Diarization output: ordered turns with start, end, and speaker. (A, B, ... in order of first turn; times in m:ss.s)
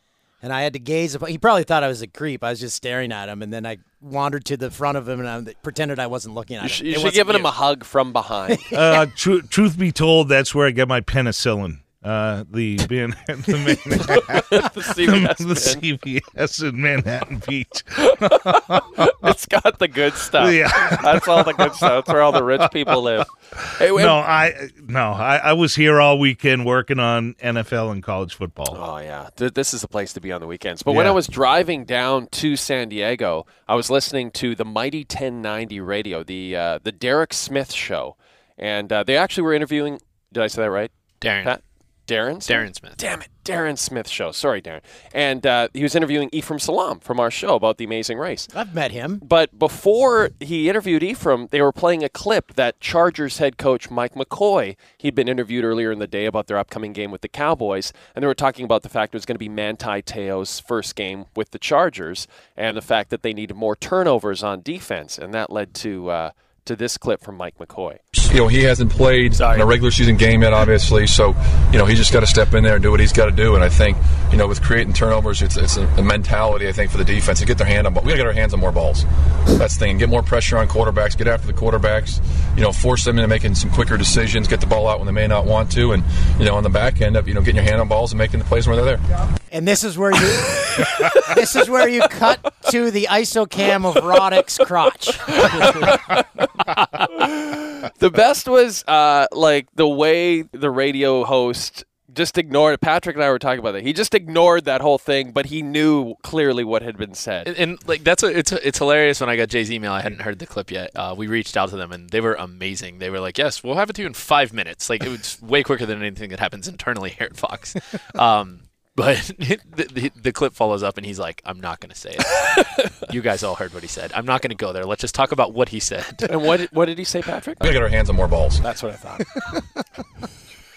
0:00.4-0:07.5 A
0:06.6-0:08.7 B
0:08.5-0:09.0 A
0:08.7-0:19.1 C
0:14.0-0:15.8 B
0:18.0-0:24.2 B
0:20.4-0:23.0 C
0:23.9-0:28.8 C
0:28.7-0:48.5 B
0:30.9-0:31.2 C
0:41.2-0:41.6 D
0:42.4-0:43.0 D
0:48.5-0:49.2 A
0:49.2-1:08.0 B
1:08.2-1:29.0 E
1:09.4-1:09.6 B
1:29.5-1:35.9 A
1:30.8-1:31.3 B
1:35.3-1:36.5 B
1:37.0-1:47.5 B
1:47.4-2:06.3 D
2:06.2-2:07.6 B
2:07.6-2:08.6 E
2:08.6-2:09.3 B